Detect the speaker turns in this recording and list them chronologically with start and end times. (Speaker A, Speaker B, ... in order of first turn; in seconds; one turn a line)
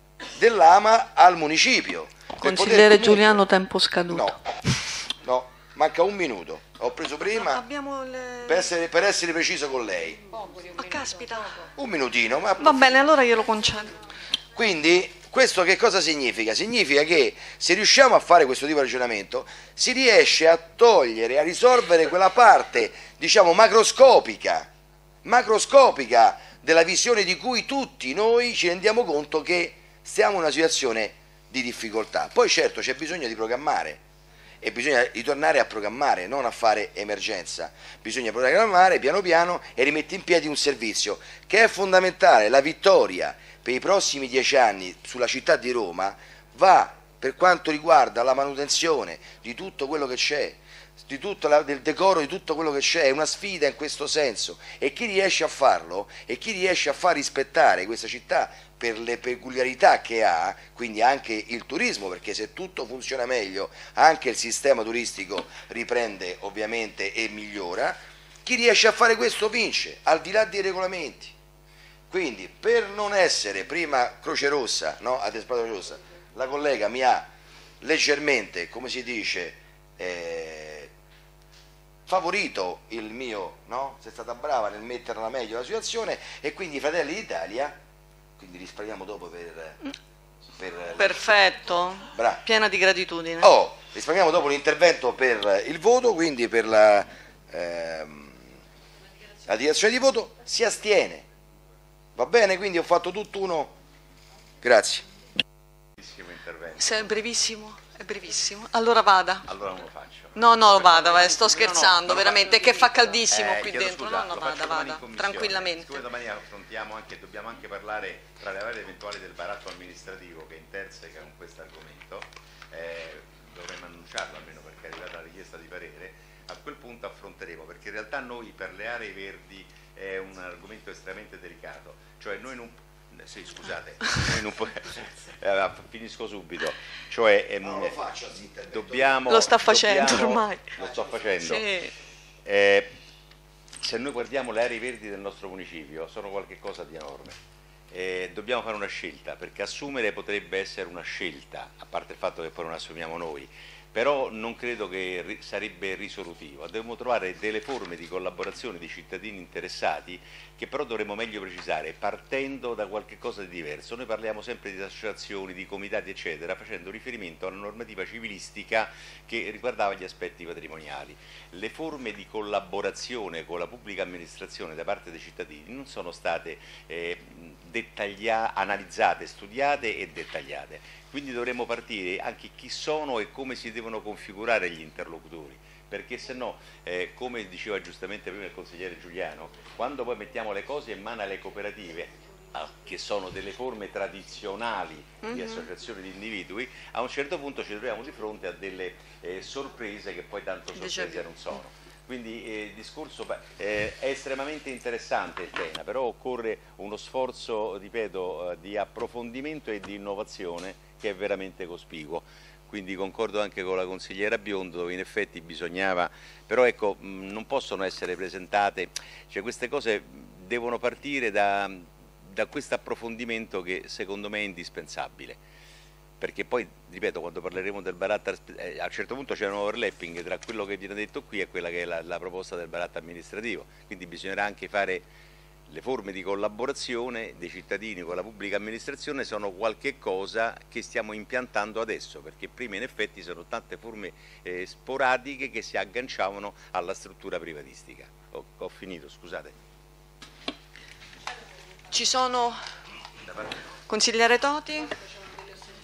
Speaker A: 0.4-3.4
Speaker B: 2.4-4.4
Speaker A: 4.1-4.4
Speaker A: 5.2-7.6
Speaker B: 7.4-8.7
Speaker A: 8.5-10.2
Speaker B: 10.8-11.7
Speaker A: 11.8-12.9
Speaker B: 12.6-13.9
Speaker A: 14.6-24.7
Speaker A: 25.2-34.0
Speaker A: 34.6-71.3
Speaker A: 72.1-77.3
Speaker A: 77.8-80.9
Speaker A: 82.1-87.8
Speaker A: 88.4-89.8
Speaker A: 90.6-91.2
Speaker B: 91.0-93.5
Speaker A: 92.1-92.4
Speaker A: 93.4-98.5
Speaker A: 99.5-101.3
Speaker A: 102.2-103.7
Speaker A: 104.6-105.0
Speaker C: 106.0-107.0
Speaker B: 106.8-109.5
Speaker C: 109.5-138.0
Speaker B: 110.3-116.1
Speaker A: 137.6-139.2
Speaker C: 138.7-141.7
Speaker B: 139.3-140.7
Speaker A: 140.9-141.2
Speaker B: 141.4-141.9
Speaker C: 142.4-142.9
Speaker C: 143.8-147.4
Speaker C: 147.9-225.4
Speaker B: 195.2-195.7
Speaker B: 200.8-201.3
Speaker C: 226.2-235.1
Speaker C: 235.7-249.5
Speaker B: 251.9-252.6
Speaker B: 253.9-254.9